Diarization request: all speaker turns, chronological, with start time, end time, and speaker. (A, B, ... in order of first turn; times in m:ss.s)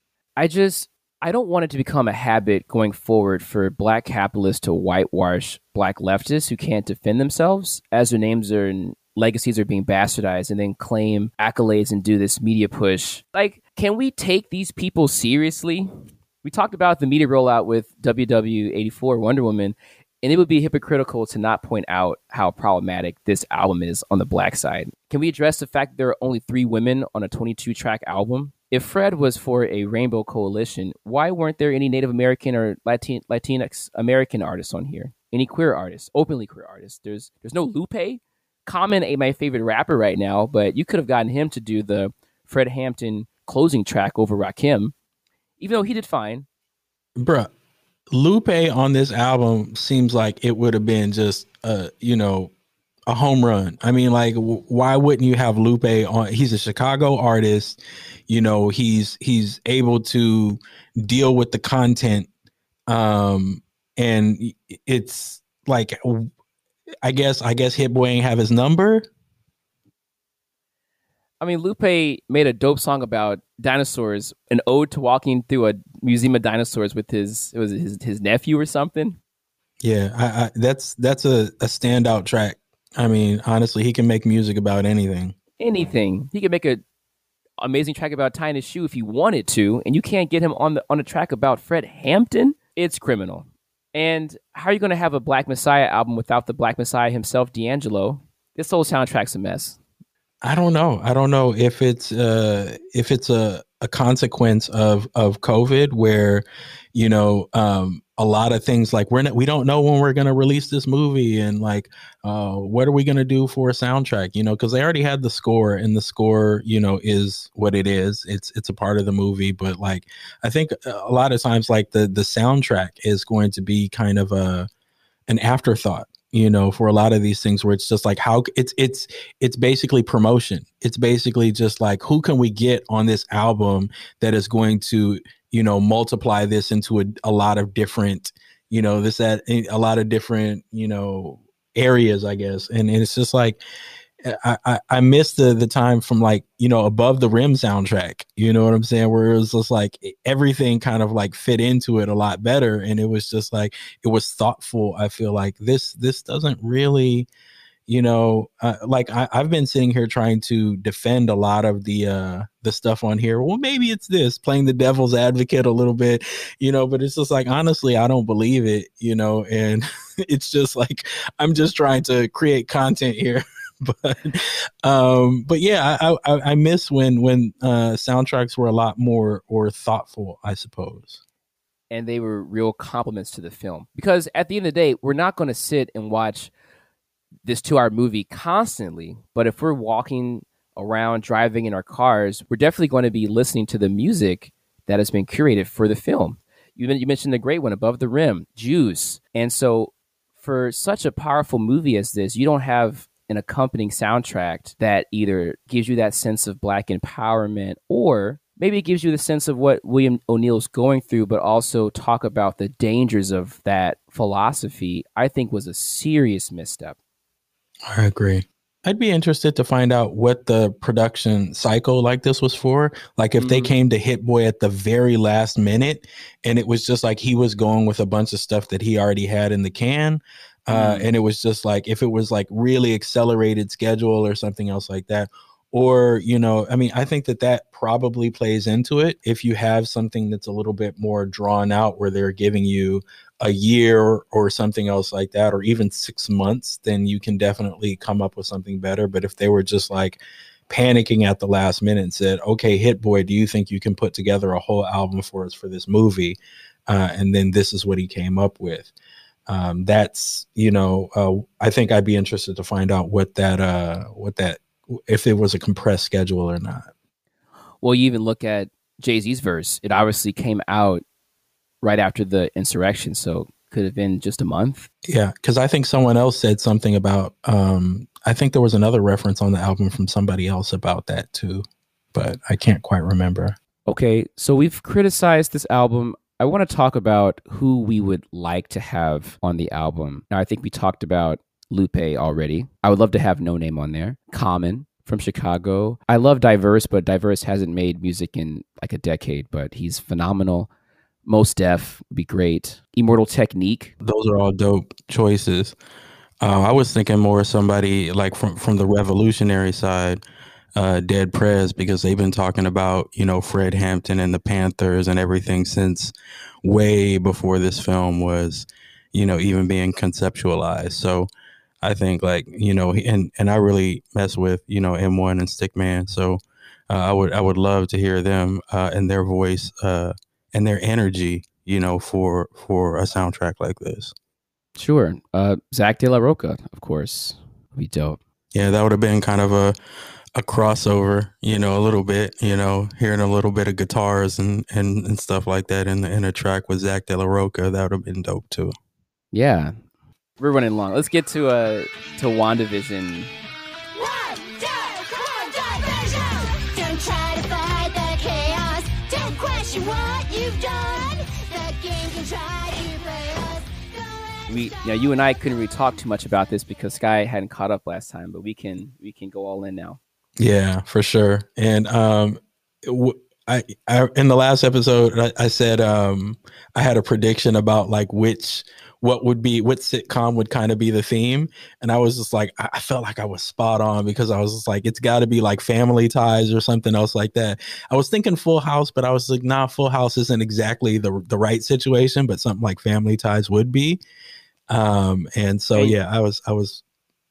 0:00.4-0:15.9 A
0:16.4-0:44.9 A
0:45.6-0:46.4 A
0:47.2-0:47.5 B
0:48.1-0:52.5 B
0:53.1-1:02.3 B
1:02.9-1:06.3 B
1:07.0-1:09.1 B
1:11.4-1:19.2 A
1:19.8-1:25.3 B
1:25.6-1:26.8 A
1:27.6-1:39.8 A
1:40.4-2:04.7 B
2:05.3-2:23.6 B
2:24.2-2:37.3 B
2:37.9-3:01.2 B
3:01.9-3:06.5 A
3:07.4-3:37.0 A
3:37.9-4:18.9 B
3:43.4-3:43.7 A
3:50.7-3:51.1 A
4:19.5-4:26.9 B
4:27.8-4:31.0 A
4:31.8-4:34.9 A
4:35.0-4:43.6 B
4:43.9-5:00.7 A
5:01.2-5:03.9 A
5:04.0-5:05.8 B
5:06.4-5:10.2 B
5:10.7-5:21.3 B
5:21.8-5:34.1 B
5:34.8-5:38.2 A
5:38.5-5:39.8 B
5:40.3-5:48.7 B
5:49.3-5:49.8 A
5:50.4-5:53.3 A
5:53.9-6:03.7 C
6:04.5-6:10.0 A
6:10.4-6:34.0 B
6:34.7-6:36.8 B